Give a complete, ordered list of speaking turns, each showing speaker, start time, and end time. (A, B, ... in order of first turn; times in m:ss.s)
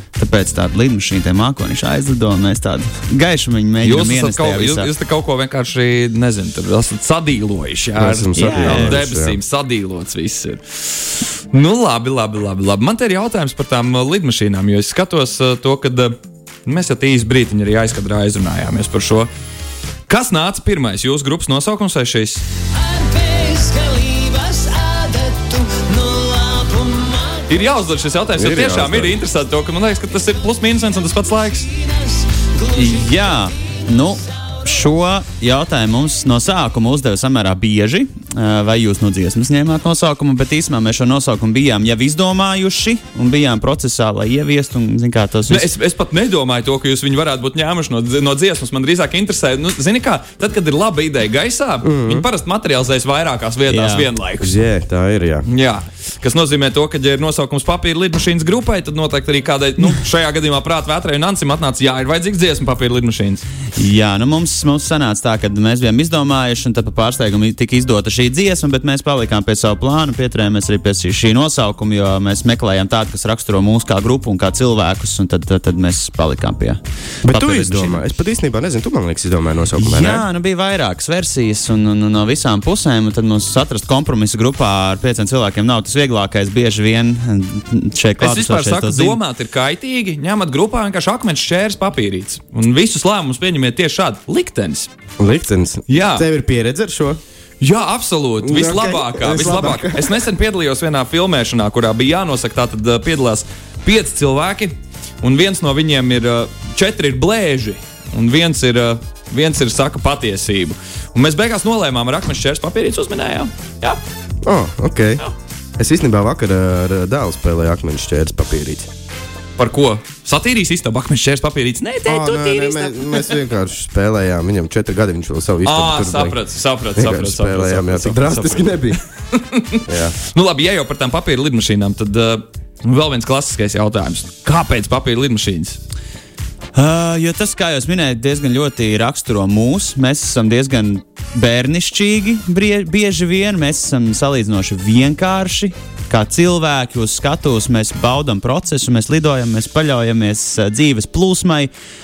0:00.2-0:04.9 A
0:03.8-0:19.3 B
0:08.0-0:09.4 C
0:08.4-0:09.0 A
0:20.1-0:22.4 B
0:22.7-0:27.7 D
0:27.5-0:31.7 B
0:28.4-0:29.2 C
0:31.8-0:33.4 D
0:32.7-0:45.7 A
0:45.5-0:54.5 B
0:51.8-0:52.3 C
0:53.7-0:54.1 A
0:54.4-0:55.5 C
0:55.5-1:03.4 B
1:03.8-1:18.0 A
1:17.2-1:20.2 C
1:19.8-1:29.2 A
1:28.2-1:34.9 B
1:35.2-1:37.2 C
1:35.9-1:36.2 B
1:37.6-1:54.0 B
1:38.4-1:40.2 C
1:54.4-1:55.2 C
1:55.8-1:58.9 C
1:59.6-2:03.4 B
2:02.0-2:06.4 C
2:05.6-2:15.8 B
2:07.0-2:09.0 C
2:09.9-2:10.2 C
2:16.8-2:31.7 A